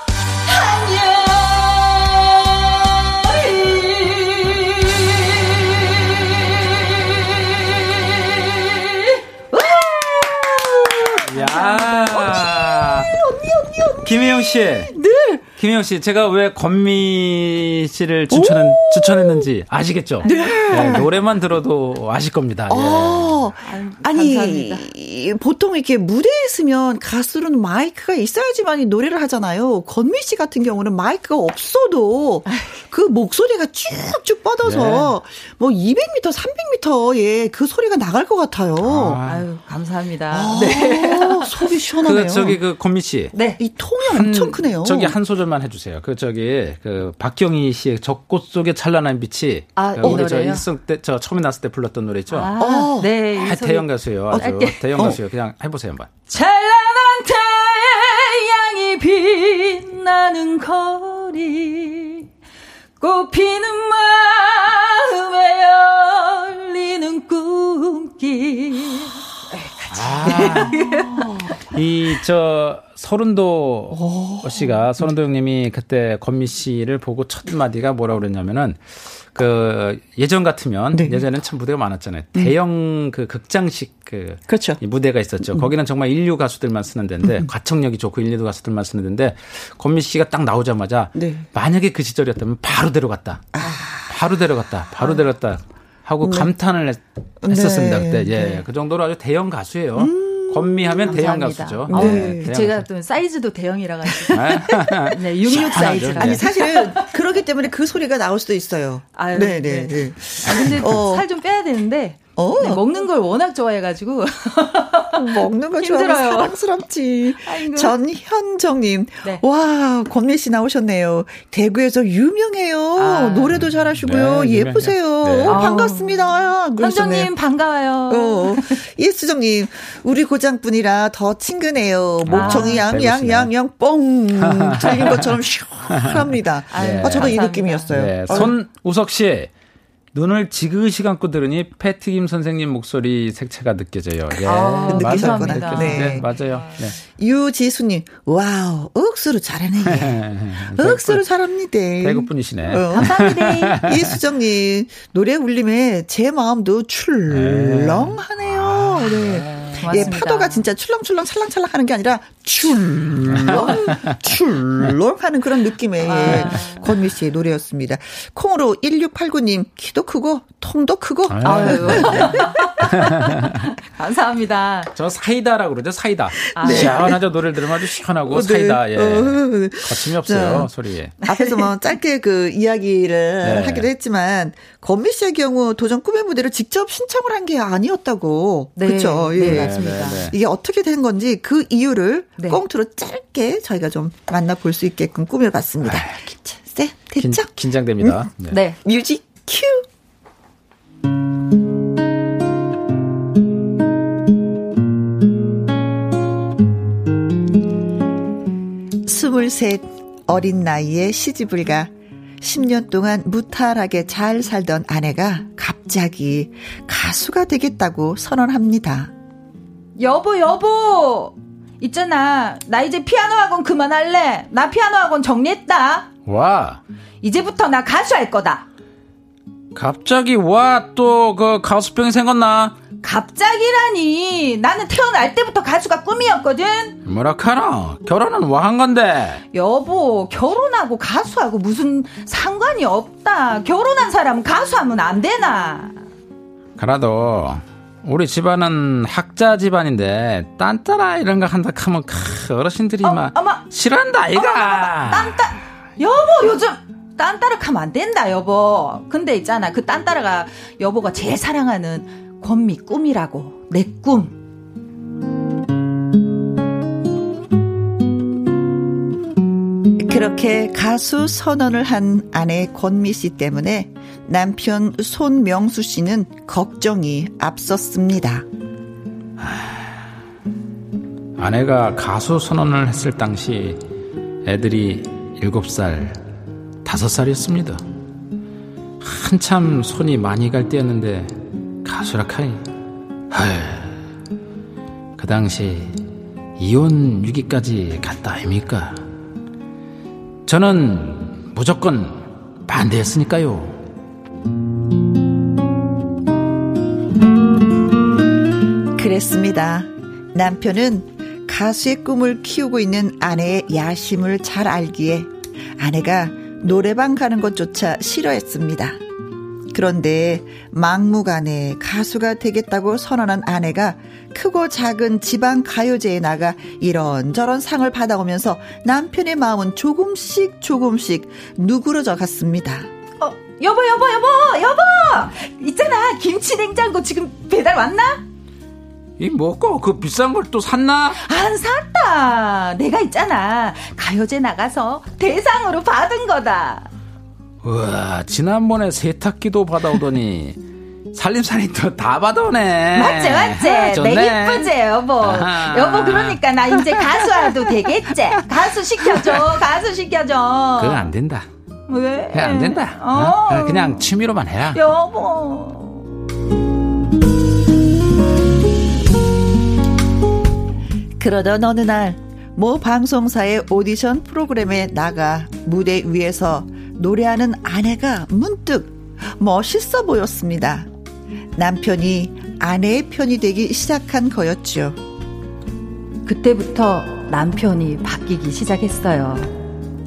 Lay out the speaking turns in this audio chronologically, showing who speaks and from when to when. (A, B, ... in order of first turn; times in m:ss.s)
0:00.4-0:10.6 A
0:09.6-0:15.4 B
0:11.3-0:13.1 C
0:11.4-0:12.3 A
0:14.0-0:15.0 C
0:15.6-0:23.5 C
0:18.3-0:19.5 B
0:20.2-0:21.0 A
0:20.2-0:21.1 B
0:22.7-0:39.2 B
0:23.6-0:24.9 A
0:34.6-0:35.1 C
0:38.8-0:39.5 C
0:39.2-0:41.7 A
0:40.3-0:42.6 B
0:42.0-0:43.3 C
0:43.3-0:43.6 A
0:43.6-0:45.2 B
0:44.1-0:52.5 C
0:49.8-0:50.6 A
0:50.0-0:50.2 B
0:52.3-0:54.8 A
0:52.6-0:53.1 B
0:53.3-0:56.1 C
0:54.3-0:55.2 B
0:56.3-1:02.3 A
1:03.0-1:11.2 A
1:09.9-1:10.8 C
1:10.2-1:11.5 B
1:11.7-1:42.9 C
1:13.9-1:14.7 B
1:20.9-1:21.2 B
1:24.5-1:24.8 B
1:31.2-1:31.5 B
1:33.5-1:34.1 B
1:36.2-1:36.5 B
1:37.4-1:38.6 B
1:40.0-1:41.3 B
1:41.0-1:47.1 A
1:41.9-1:42.5 B
1:44.3-1:46.5 C
1:45.6-1:51.3 B
1:49.2-1:56.6 A
1:52.4-1:52.8 B
1:55.1-2:07.3 B
1:57.4-1:58.0 A
2:03.0-2:03.6 A
2:04.0-2:05.7 C
2:05.5-2:08.8 A
2:08.1-2:18.6 B
2:12.3-2:13.5 C
2:12.3-2:12.8 A
2:14.4-2:15.3 C
2:15.9-2:19.5 C
2:16.7-2:18.5 A
2:20.1-2:27.0 C
2:24.4-2:26.7 A
2:24.9-2:26.3 B
2:27.0-2:30.2 B
2:29.8-2:31.2 C
2:30.8-2:52.7 B
2:32.0-2:34.2 C
2:32.9-2:33.8 A
2:37.3-2:40.1 C
2:39.7-2:40.6 A
2:43.2-2:44.2 C
2:46.0-2:46.9 A
2:51.3-2:53.5 C
2:51.4-2:54.9 A
2:55.0-3:01.2 C
2:56.5-2:57.1 A
2:56.6-2:57.2 B
2:58.2-3:00.7 B
3:01.2-3:18.3 B
3:01.2-3:01.7 A
3:03.4-3:03.9 C
3:08.8-3:10.2 A
3:09.4-3:10.4 C
3:15.8-3:16.2 C
3:17.2-3:18.6 C
3:18.5-3:18.8 A
3:18.8-3:19.9 B
3:29.0-3:39.1 B
3:40.0-3:46.1 A
3:46.3-3:46.8 C
3:47.2-3:48.7 A
3:49.7-3:52.8 C
3:53.0-3:57.0 A
3:57.0-3:59.4 C
3:59.5-4:06.0 A
4:06.8-4:15.4 C
4:13.0-4:13.7 A
4:14.4-4:24.4 A
4:30.0-4:38.4 B
4:39.4-4:39.9 C
4:41.4-4:43.8 C
4:44.4-4:46.2 C
4:46.8-4:47.8 C
4:49.0-4:52.6 C
4:53.3-4:54.0 C
4:55.2-4:56.0 C
4:56.6-4:59.0 C
5:00.5-5:03.8 C
5:09.0-5:19.0 B
5:19.7-5:32.9 B
5:33.2-5:38.2 A
5:39.2-5:41.2 C
5:41.2-5:46.9 A
5:47.6-5:50.6 C
5:51.1-5:57.3 C
5:52.9-6:01.1 A
6:00.8-6:01.5 C
6:01.9-6:04.0 A
6:02.3-6:04.8 C
6:04.7-6:06.1 A
6:11.2-6:20.9 B
6:21.6-6:25.0 B
6:26.3-6:29.5 A